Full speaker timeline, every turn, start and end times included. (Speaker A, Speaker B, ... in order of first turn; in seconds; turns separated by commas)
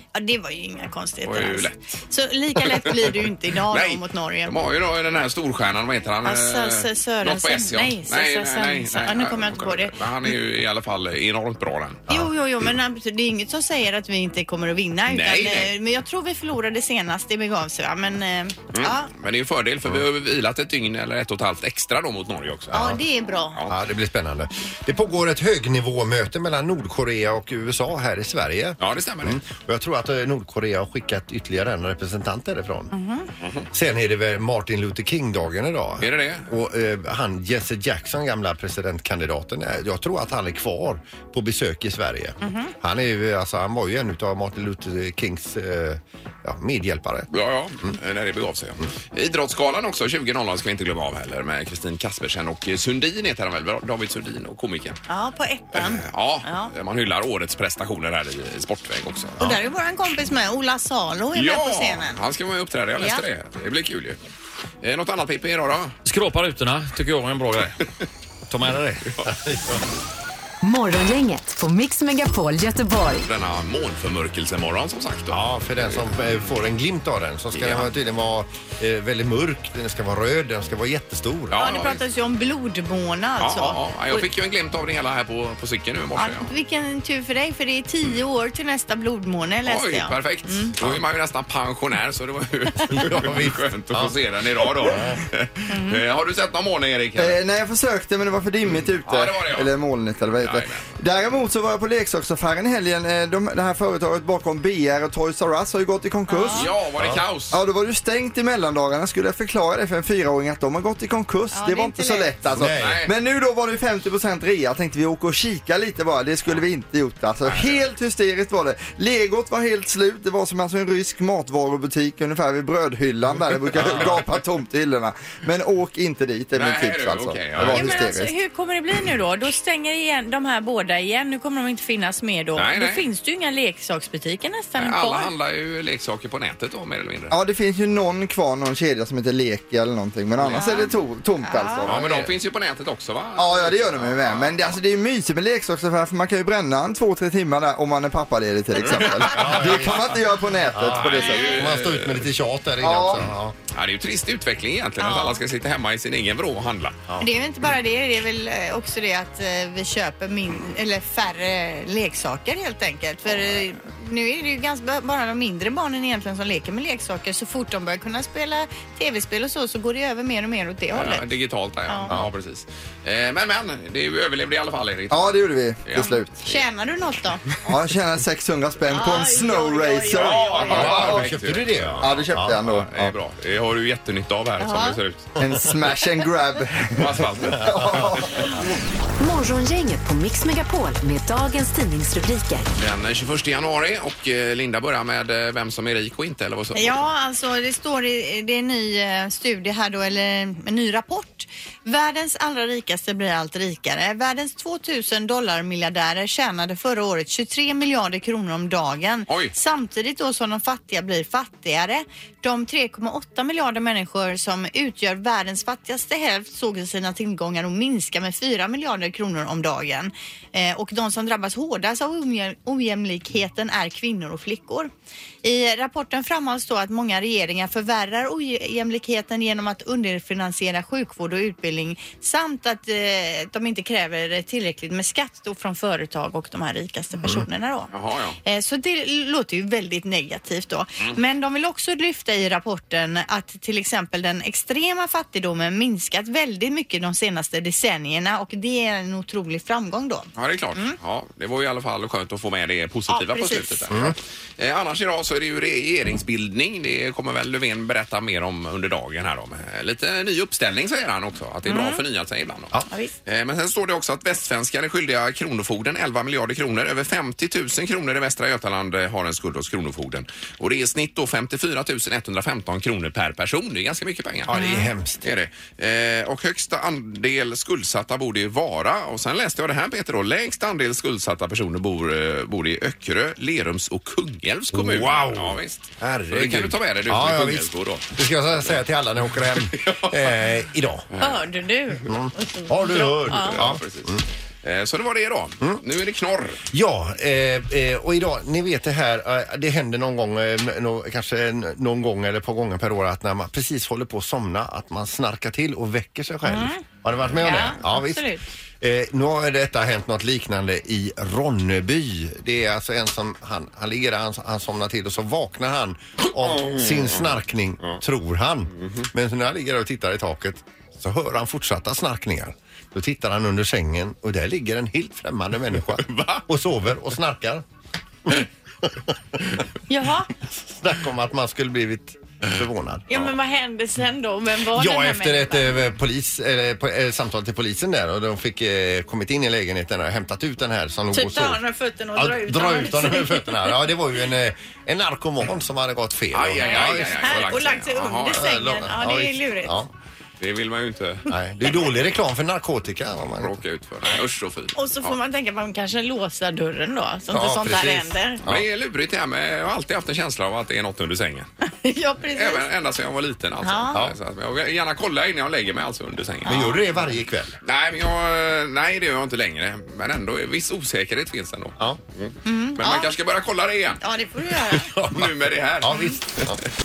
Speaker A: 0.1-4.5, Speaker B: 1.2-1.8, Speaker B: 3.7-12.1, Speaker A: 6.2-10.0, Speaker A: 12.1-19.1, Speaker B: 15.1-15.7, Speaker B: 18.7-23.0, Speaker C: 22.7-23.0, Speaker A: 22.7-23.6, Speaker C: 23.7-32.9, Speaker B: 28.8-29.4, Speaker A: 32.9-33.3, Speaker C: 33.7-47.3, Speaker B: 36.0-36.5, Speaker A: 42.4-42.7, Speaker B: 47.3-55.0, Speaker A: 55.1-56.7, Speaker B: 55.7-59.4, Speaker A: 59.4-62.2, Speaker B: 61.4-64.2, Speaker B: 64.8-66.0, Speaker D: 66.0-67.8, Speaker D: 68.5-69.1, Speaker C: 69.3-69.8, Speaker E: 70.6-73.3, Speaker B: 73.2-76.0, Speaker C: 75.3-81.6, Speaker B: 77.5-77.9, Speaker B: 81.5-82.0, Speaker A: 81.5-84.2, Speaker B: 83.4-86.5, Speaker A: 86.2-90.8, Speaker B: 89.7-97.4, Speaker C: 92.8-95.2, Speaker A: 95.7-96.0, Speaker F: 97.2-106.7, Speaker B: 99.0-99.7, Speaker B: 100.4-100.9, Speaker A: 106.3-106.7, Speaker B: 106.5-107.6, Speaker C: 107.0-107.2, Speaker F: 107.5-128.3, Speaker A: 111.5-112.3, Speaker C: 112.5-113.0, Speaker B: 112.7-113.1, Speaker B: 117.5-117.8, Speaker C: 123.8-124.2, Speaker B: 123.8-124.2, Speaker B: 126.5-128.0, Speaker A: 127.7-135.3, Speaker B: 132.6-133.1, Speaker B: 134.8-137.4, Speaker F: 137.3-142.3, Speaker B: 140.4-140.6, Speaker A: 140.5-141.9, Speaker B: 141.8-144.8, Speaker F: 143.4-151.7, Speaker B: 148.8-150.1, Speaker C: 149.3-150.2, Speaker C: 150.7-153.6, Speaker B: 150.9-152.3, Speaker F: 152.8-153.2, Speaker B: 153.7-157.0, Speaker A: 155.0-155.4, Speaker A: 157.2-171.3, Speaker B: 170.9-176.5, Speaker A: 171.9-172.1, Speaker F: 175.1-176.4, Speaker A: 176.4-177.4, Speaker F: 177.7-181.2, Speaker A: 178.9-180.9, Speaker B: 180.1-185.3, Speaker C: 180.6-182.6, Speaker F: 182.0-183.1, Speaker A: 184.6-185.0, Speaker F: 185.4-188.5, Speaker B: 186.9-188.2, Speaker C: 187.6-188.3, Speaker E: 189.2-192.7, Speaker B: 192.8-197.0, Speaker A: 196.8-224.9, Speaker B: 209.3-209.5, Speaker A: 225.4-237.9, Speaker B: 237.9-238.4, Speaker A: 238.4-251.0, Speaker B: 250.4-274.6, Speaker A: 253.1-253.9, Speaker C: 253.9-254.2, Speaker A: 261.7-262.0, Speaker C: 274.5-275.2, Speaker A: 274.5-274.9, Speaker B: 275.2-288.1, Speaker C: 284.7-291.1, Speaker B: 289.7-290.4, Speaker B: 291.1-291.4, Speaker A: 291.2-293.6, Speaker C: 292.0-294.2, Speaker B: 293.0-296.6, Speaker C: 296.7-308.3, Speaker A: 306.4-306.8, Speaker A: 307.4-308.5, Speaker C: 308.8-327.6, Speaker B: 316.4-317.3, Speaker B: 326.1-326.4, Speaker C: 328.3-329.4, Speaker A: 329.9-330.3, Speaker C: 330.5-333.3, Speaker A: 333.1-335.8, Speaker C: 334.7-341.6, Speaker A: 341.1-343.8, Speaker C: 342.2-347.4, Speaker B: 346.3-348.4, Speaker A: 346.8-349.8, Speaker C: 348.3-349.9, Speaker B: 350.4-351.3, Speaker C: 351.3-353.6, Speaker B: 353.4-355.1, Speaker A: 354.8-358.4, Speaker C: 357.3-358.6, Speaker B: 358.5-361.5, Speaker A: 361.6-362.7, Speaker B: 362.3-366.8, Speaker A: 363.6-364.0, Speaker A: 366.4-366.8, Speaker C: 366.5-367.6, Speaker B: 367.6-374.0, Speaker A: 372.4-373.2, Speaker A: 374.0-374.9, Speaker C: 374.7-376.6, Speaker B: 375.1-376.6, Speaker A: 375.9-376.2